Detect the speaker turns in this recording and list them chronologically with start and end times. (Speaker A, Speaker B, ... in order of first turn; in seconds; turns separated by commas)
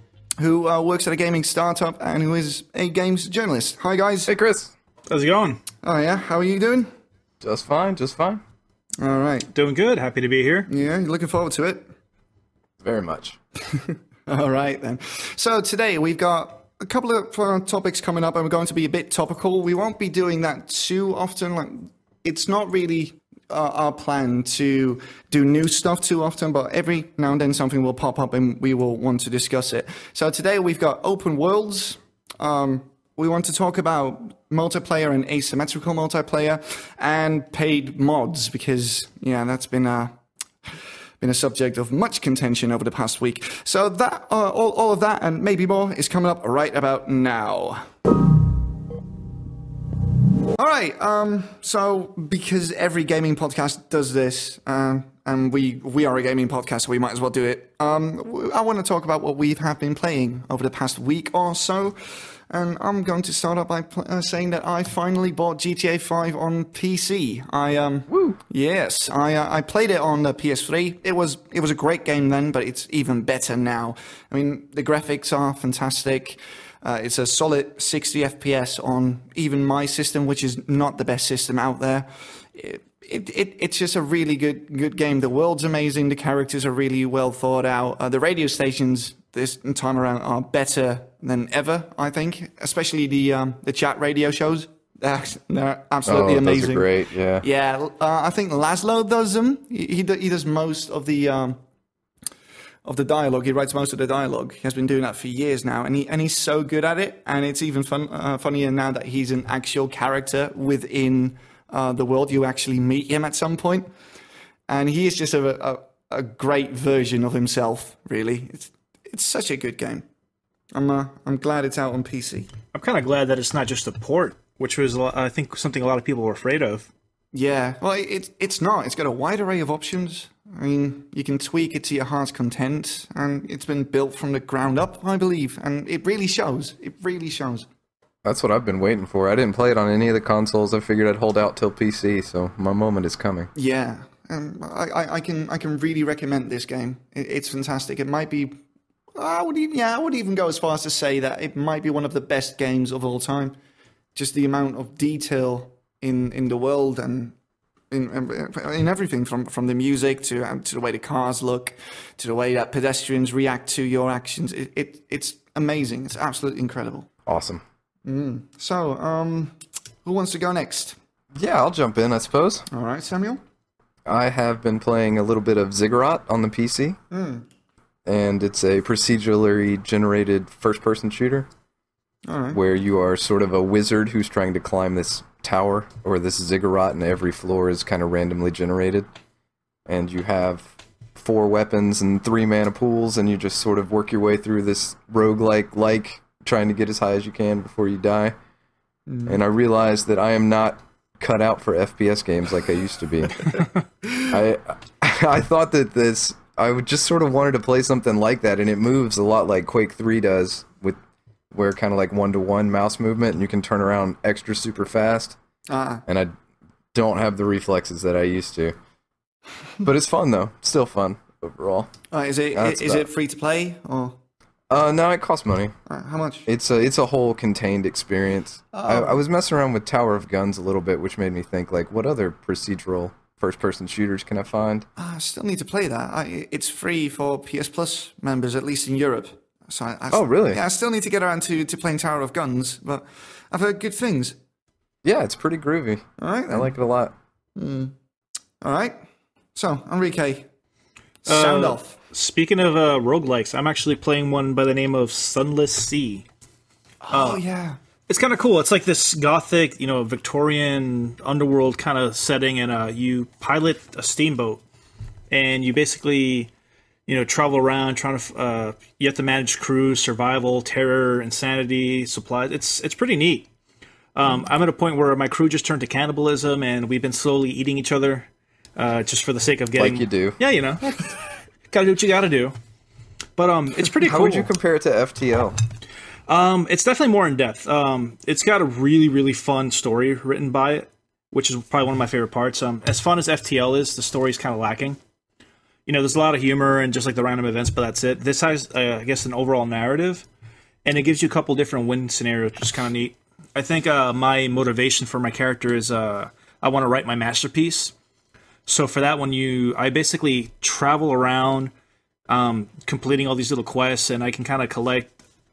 Speaker A: 0.4-4.3, Speaker B: 4.3-4.7, Speaker C: 5.1-5.6, Speaker A: 5.8-6.9, Speaker B: 7.4-8.4, Speaker A: 9.0-9.5, Speaker C: 9.5-10.7, Speaker A: 10.7-11.9, Speaker B: 12.8-13.4, Speaker A: 13.7-40.2, Speaker A: 41.2-47.9, Speaker A: 50.5-96.9, Speaker B: 68.1-68.4, Speaker B: 96.0-97.5, Speaker A: 97.4-101.6, Speaker A: 102.8-113.9, Speaker A: 114.7-120.0, Speaker A: 120.7-122.5, Speaker C: 122.7-126.9, Speaker A: 127.3-137.7, Speaker B: 138.2-143.5, Speaker A: 143.5-148.6, Speaker A: 149.2-153.6, Speaker A: 154.1-157.3, Speaker A: 157.9-167.1, Speaker B: 167.2-167.6, Speaker A: 168.1-171.0, Speaker B: 171.3-172.7, Speaker A: 172.7-173.4, Speaker B: 174.1-177.0, Speaker A: 177.1-177.4, Speaker B: 178.1-181.5, Speaker A: 182.2-182.6, Speaker B: 182.5-189.1, Speaker B: 189.8-198.3, Speaker A: 199.1-199.4, Speaker B: 199.3-203.7, Speaker B: 204.2-211.0, Speaker B: 211.5-215.4, Speaker A: 215.7-216.0, Speaker B: 216.1-216.3, Speaker B: 216.9-218.7, Speaker B: 219.8-221.9, Speaker A: 222.1-224.2, Speaker B: 222.5-223.1, Speaker B: 224.7-225.7, Speaker A: 225.9-226.5, Speaker B: 226.4-234.8, Speaker A: 228.7-229.2, Speaker A: 235.0-244.3, Speaker B: 240.1-240.6, Speaker B: 245.0-247.1, Speaker A: 246.2-246.8, Speaker A: 247.6-247.9, Speaker A: 248.6-249.0, Speaker A: 249.5-250.5, Speaker A: 251.2-252.0, Speaker C: 251.2-256.2, Speaker A: 257.0-257.8, Speaker C: 257.1-257.4, Speaker C: 258.1-264.6, Speaker C: 265.3-266.5, Speaker C: 267.1-273.5, Speaker C: 274.1-282.5, Speaker B: 279.8-280.4, Speaker C: 283.4-284.5, Speaker B: 284.0-285.6, Speaker C: 286.3-295.0, Speaker C: 295.9-300.3, Speaker C: 300.8-307.9, Speaker C: 308.7-311.7, Speaker C: 312.3-315.1